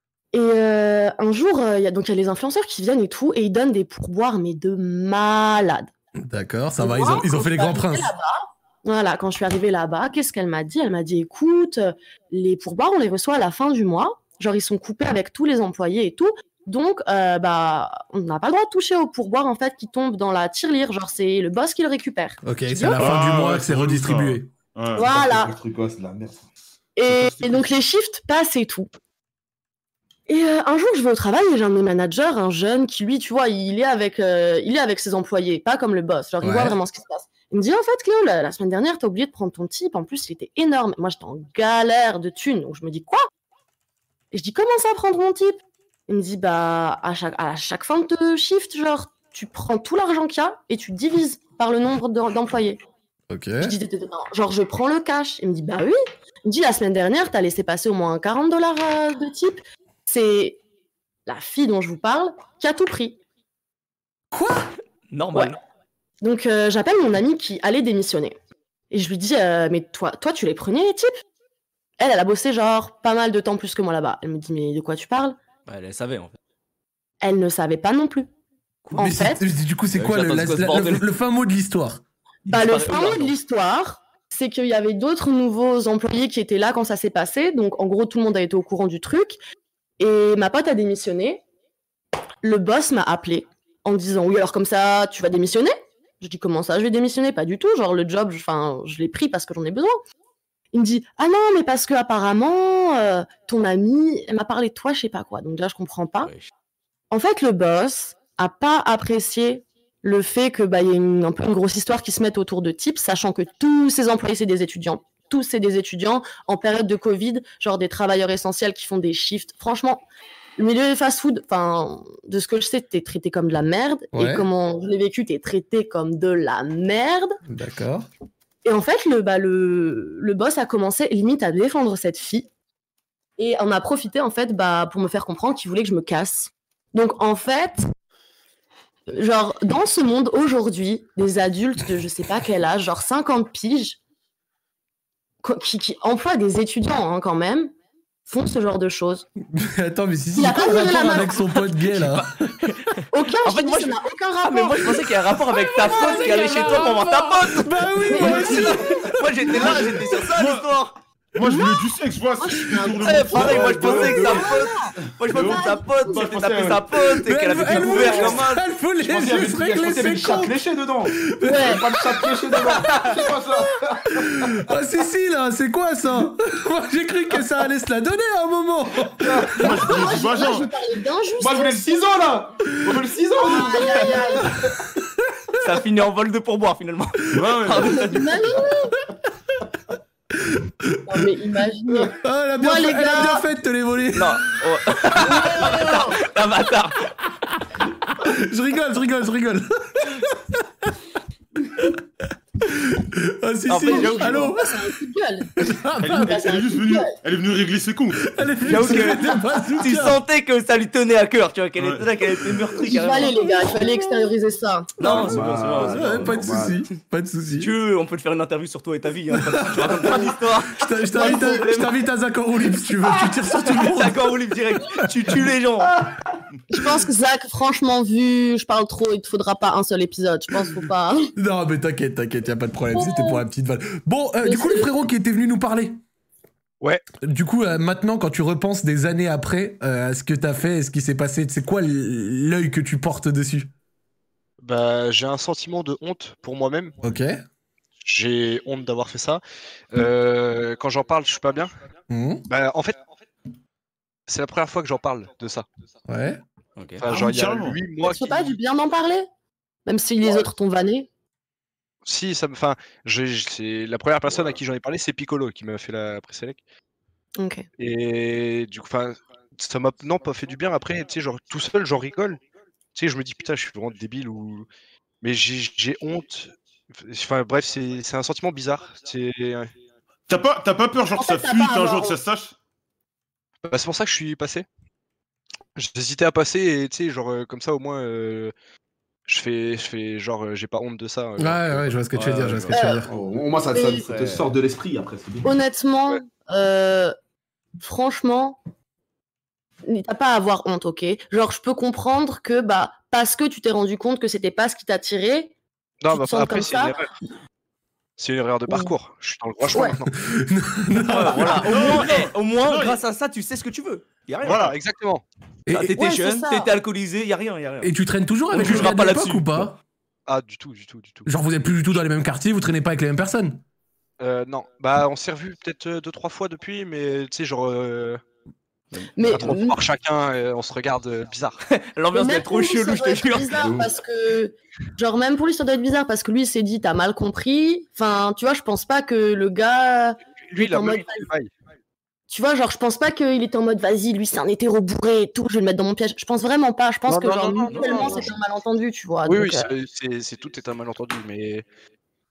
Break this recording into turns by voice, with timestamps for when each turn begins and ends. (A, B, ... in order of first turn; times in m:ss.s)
0:00.3-0:05.9 A
0:06.3-0:08.1 B
0:06.8-0:23.1 A
0:22.4-0:24.5 B
0:23.0-0:25.1 C
0:25.0-0:25.5 A
0:25.0-0:26.4 D
0:27.0-0:28.9 A
0:27.0-0:27.7 C
0:30.3-0:43.3 A
0:36.4-0:36.8 B
0:44.3-0:52.8 A
0:53.3-0:53.8 B
0:53.6-1:00.6 A
1:01.3-1:03.2 A
1:04.3-1:04.7 B
1:05.1-1:05.6 E
1:06.2-1:08.4 A
1:08.9-1:11.1 A
1:12.0-1:15.4 A
1:15.7-1:16.4 E
1:17.2-1:18.3 A
1:18.9-1:19.4 A
1:19.0-1:22.0 B
1:19.9-1:21.1 E
1:22.5-1:29.4 A
1:22.5-1:23.3 E
1:30.0-1:31.4 A
1:32.4-1:40.0 A
1:40.7-1:46.3 A
1:46.2-1:46.5 E
1:47.1-2:00.0 A
2:00.6-2:07.4 A
2:04.1-2:04.5 B
2:07.5-2:08.1 B
2:08.6-2:12.5 A
2:13.4-2:17.9 A
2:19.1-2:24.0 A
2:25.4-2:27.7 A
2:28.3-2:29.3 A
2:29.5-2:32.7 B
2:30.4-2:31.4 A
2:31.8-2:41.0 E
2:33.1-2:35.2 A
2:35.8-2:39.9 B
2:35.9-2:36.4 A
2:38.1-2:38.8 A
2:39.6-2:40.7 C
2:41.4-2:44.2 C
2:41.4-2:41.8 A
2:42.4-2:46.2 A
2:43.0-2:48.6 E
2:43.4-2:44.6 D
2:45.3-2:48.4 D
2:47.2-2:50.6 B
2:49.0-2:54.7 D
2:51.2-2:52.0 B
2:51.4-2:51.8 A
2:54.1-2:59.7 B
2:59.2-2:59.8 D
2:59.6-3:00.7 C
2:59.6-3:02.1 A
3:01.4-3:04.7 D
3:03.3-3:04.5 A
3:05.6-3:08.4 E
3:07.3-3:08.1 C
3:07.9-3:09.0 A
3:10.4-3:11.0 B
3:11.1-3:13.4 A
3:12.1-3:14.4 B
3:14.1-3:17.1 E
3:15.3-3:16.1 A
3:18.0-3:20.9 B
3:22.6-3:24.7 B
3:23.7-3:24.6 E
3:23.8-3:25.5 A
3:25.6-3:26.3 B
3:26.0-3:28.3 C
3:26.2-3:27.1 A
3:28.2-3:30.2 B
3:28.6-3:33.5 E
3:31.8-3:32.6 C
3:32.8-3:35.0 A
3:33.6-3:33.9 B
3:35.0-3:36.4 E
3:35.0-3:36.8 D
3:35.8-3:37.7 B
3:37.6-3:41.9 E
3:39.4-3:45.0 B
3:41.2-3:41.6 A
3:43.6-3:46.0 E
3:46.7-3:51.3 A
3:51.4-3:56.0 B
3:52.9-3:53.4 A
3:54.4-3:54.9 A
3:57.2-4:03.7 B
4:04.6-4:06.9 F
4:07.0-4:07.4 B
4:08.0-4:09.4 F
4:09.9-4:11.7 F
4:12.1-4:12.4 B
4:12.5-4:13.0 F
4:14.3-4:15.7 F
4:16.1-4:16.4 B
4:16.8-4:17.0 E
4:17.0-4:18.6 F
4:17.0-4:17.8 C
4:18.0-4:19.3 A
4:19.9-4:21.1 A
4:22.0-4:26.6 F
4:27.4-4:27.7 A
4:27.8-4:32.4 F
4:33.0-4:34.7 F
4:35.2-4:39.7 F
4:40.3-4:42.5 C
4:41.2-4:42.2 A
4:43.7-4:44.7 F
4:45.8-4:48.5 F
4:49.3-4:52.0 F
4:51.4-4:53.1 B
4:52.1-4:52.8 E
4:52.7-4:53.1 A
4:53.1-4:55.5 D
4:53.7-4:54.0 A
4:54.0-4:54.5 E
4:55.4-4:57.2 A
4:57.8-4:58.6 A
4:59.8-5:05.5 A
5:06.0-5:07.1 F
5:06.1-5:07.0 A
5:08.2-5:10.1 F
5:09.7-5:10.0 A
5:10.2-5:11.7 B
5:11.0-5:14.7 E
5:11.6-5:13.0 C
5:14.4-5:14.7 C
5:14.5-5:15.2 F
5:15.7-5:16.0 B
5:15.7-5:17.9 E
5:15.9-5:16.7 A
5:17.8-5:19.8 B
5:18.5-5:19.7 E
5:20.3-5:21.3 F
5:21.3-5:23.6 B
5:24.2-5:28.2 F
5:28.9-5:29.6 E
5:29.2-5:29.8 A
5:29.2-5:31.6 F
5:31.6-5:33.7 E
5:32.1-5:41.3 A
5:33.6-5:33.9 D
5:40.5-5:41.5 F
5:42.3-5:49.7 A
5:47.1-5:48.3 F
5:47.7-5:48.3 E
5:49.3-5:51.7 F